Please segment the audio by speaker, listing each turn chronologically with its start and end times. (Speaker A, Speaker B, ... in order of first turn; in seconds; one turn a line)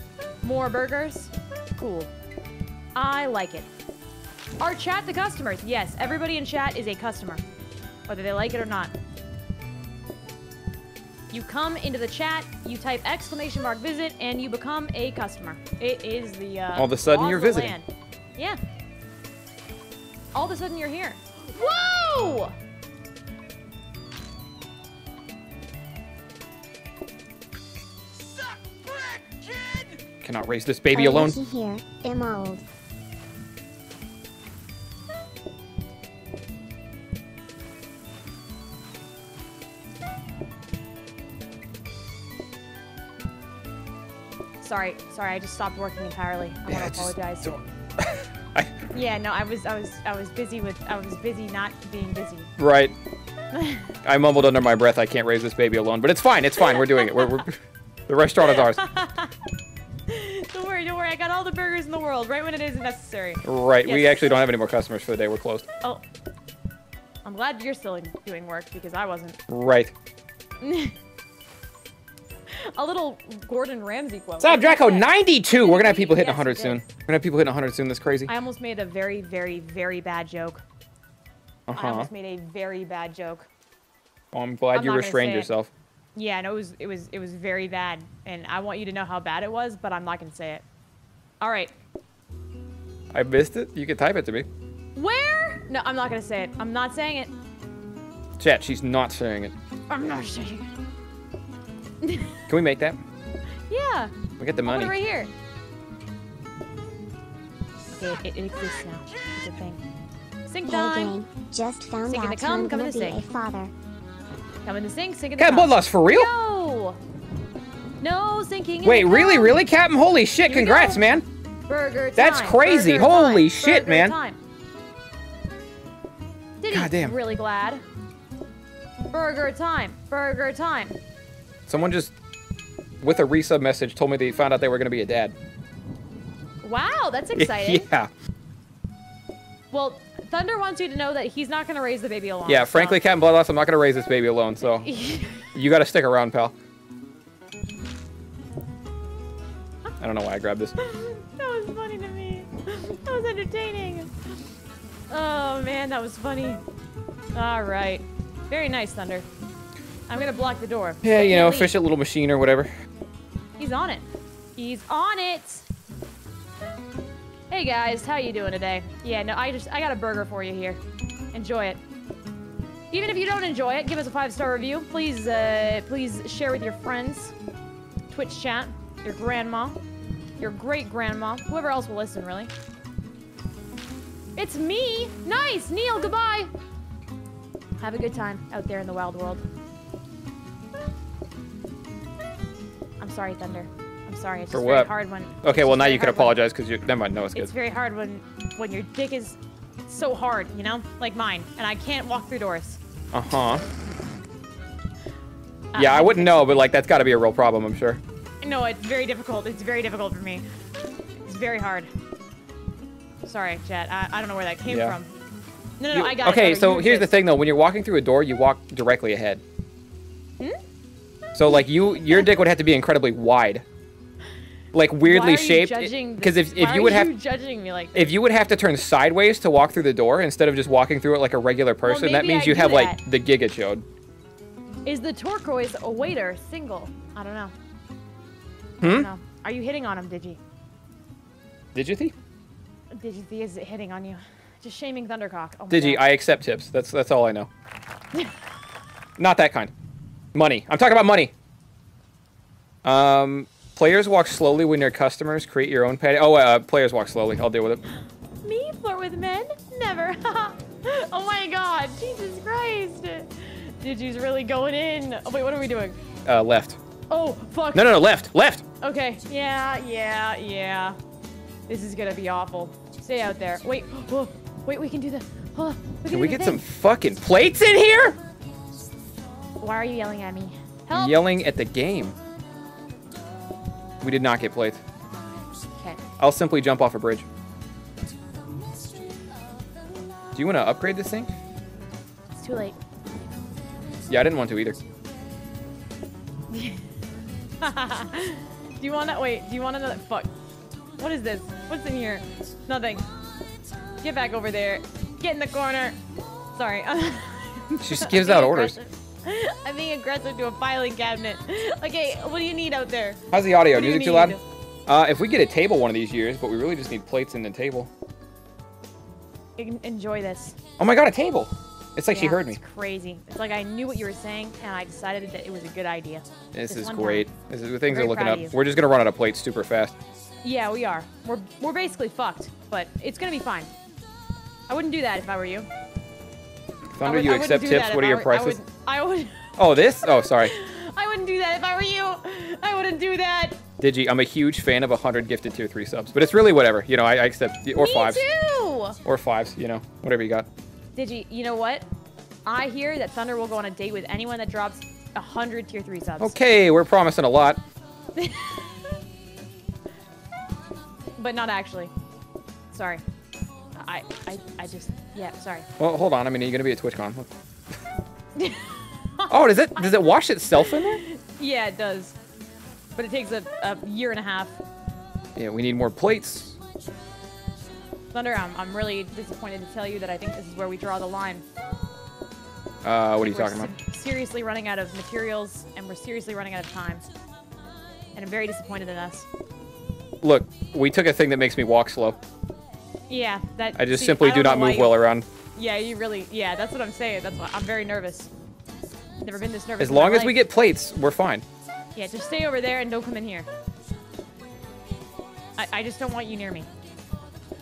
Speaker A: 0.4-2.1
Speaker A: 3.0-3.7
Speaker A: 4.6-7.4
Speaker A: 8.1-8.9
Speaker A: 11.3-18.6
Speaker B: 16.8-17.8
Speaker A: 20.3-22.6
Speaker B: 30.2-31.4
Speaker C: 30.9-32.6
Speaker A: 44.6-47.6
Speaker B: 46.7-48.8
Speaker A: 48.9-52.5
Speaker B: 52.6-53.0
Speaker A: 53.5-53.9
Speaker B: 54.0-58.8
Speaker A: 56.6-57.4
Speaker A: 58.4-59.3
Speaker A: 60.1-64.3
Speaker B: 63.5-65.7
Speaker A: 67.2-69.4
Speaker B: 69.5-69.9
Speaker A: 70.6-71.0
Speaker A: 72.5-76.8
Speaker B: 74.4-78.3
Speaker A: 78.3-80.6
Speaker B: 81.7-82.1
Speaker A: 81.8-83.5
Speaker B: 84.3-85.7
Speaker A: 84.7-85.5
Speaker A: 86.2-90.6
Speaker A: 91.4-91.7
Speaker B: 93.1-94.5
Speaker A: 95.0-97.3
Speaker B: 98.4-99.5
Speaker A: 99.9-100.7
Speaker A: 102.0-102.4
Speaker B: 102.5-103.0
Speaker A: 103.7-104.1
Speaker B: 104.4-105.0
Speaker A: 104.7-105.3
Speaker A: 108.0-109.8
Speaker A: 110.5-111.2
Speaker C: 110.7-113.7
Speaker A: 112.1-113.2
Speaker A: 114.7-117.0
Speaker B: 115.4-116.3
Speaker A: 118.0-119.6
Speaker B: 118.8-121.3
Speaker A: 120.5-121.0
Speaker A: 121.7-124.4
Speaker B: 122.2-124.2
Speaker A: 126.6-127.8
Speaker B: 126.7-127.2
Speaker A: 129.1-131.0
Speaker B: 131.7-132.2
Speaker B: 133.0-135.3
Speaker A: 136.6-137.9
Speaker B: 137.4-138.1
Speaker A: 139.7-143.0
Speaker B: 142.5-144.9
Speaker A: 144.8-145.5
Speaker B: 145.6-146.6
Speaker B: 150.0-150.8
Speaker A: 150.8-154.3
Speaker A: 155.1-156.6
Speaker A: 157.3-159.3
Speaker A: 160.1-161.7
Speaker B: 161.0-162.7
Speaker A: 163.6-164.1
Speaker A: 164.6-165.7
Speaker A: 167.5-170.8
Speaker A: 171.3-171.8
Speaker A: 172.9-177.3
Speaker A: 178.1-179.8
Speaker A: 180.4-182.5
Speaker A: 184.4-186.5
Speaker A: 187.8-189.4
Speaker A: 193.0-196.4
Speaker B: 194.5-194.9
Speaker B: 195.4-197.5
Speaker A: 197.3-202.8
Speaker B: 203.1-203.7
Speaker A: 205.7-206.4
Speaker B: 205.8-208.0
Speaker A: 208.4-210.4
Speaker A: 211.2-211.9
Speaker A: 213.2-215.1
Speaker B: 214.7-215.0
Speaker A: 215.8-217.1
Speaker B: 215.9-219.4
Speaker B: 221.3-223.7
Speaker B: 224.7-227.1
Speaker A: 225.0-228.1
Speaker B: 227.9-233.8
Speaker A: 231.8-233.0
Speaker A: 234.9-237.5
Speaker A: 238.8-240.4
Speaker B: 238.8-239.1
Speaker B: 241.7-242.1
Speaker A: 242.9-246.0
Speaker B: 245.7-247.5
Speaker B: 249.2-249.7
Speaker B: 250.3-251.3
Speaker B: 252.8-257.8
Speaker A: 258.4-266.0
Speaker B: 266.3-266.8
Speaker A: 267.1-267.9
Speaker B: 267.7-268.6
Speaker A: 268.8-271.0
Speaker A: 271.7-276.6
Speaker B: 276.1-278.2
Speaker A: 279.6-281.2
Speaker B: 280.9-282.2
Speaker B: 284.0-284.8
Speaker B: 286.2-287.3
Speaker B: 290.4-291.3
Speaker A: 292.4-292.8
Speaker B: 294.1-294.8
Speaker A: 296.5-296.9
Speaker A: 297.6-300.3
Speaker A: 301.0-303.1
Speaker A: 304.0-306.0
Speaker A: 306.5-314.4
Speaker B: 307.8-308.8
Speaker B: 313.3-317.9
Speaker A: 319.6-320.6
Speaker B: 320.8-322.6
Speaker A: 322.1-327.3
Speaker B: 326.5-329.9
Speaker A: 327.9-328.6
Speaker A: 330.4-333.7
Speaker A: 334.7-335.7
Speaker B: 336.9-338.6
Speaker A: 337.0-343.6
Speaker B: 339.6-340.5
Speaker B: 343.8-348.2
Speaker A: 347.8-349.0
Speaker B: 349.1-350.5
Speaker A: 350.9-351.9
Speaker A: 352.5-356.4
Speaker B: 356.2-357.6
Speaker A: 358.2-358.7
Speaker A: 361.2-361.9
Speaker A: 362.7-363.0
Speaker A: 363.8-365.7
Speaker B: 365.8-367.3
Speaker A: 368.4-372.1
Speaker B: 369.3-371.0
Speaker A: 372.9-374.6
Speaker B: 375.4-376.6
Speaker A: 378.1-381.4
Speaker B: 382.8-383.7
Speaker A: 383.2-387.0
Speaker A: 388.1-389.3
Speaker B: 390.2-392.2
Speaker A: 393.1-394.9
Speaker B: 393.8-395.3
Speaker A: 395.6-398.3
Speaker A: 399.2-400.4
Speaker B: 399.8-401.4
Speaker A: 401.9-403.5
Speaker A: 405.6-406.7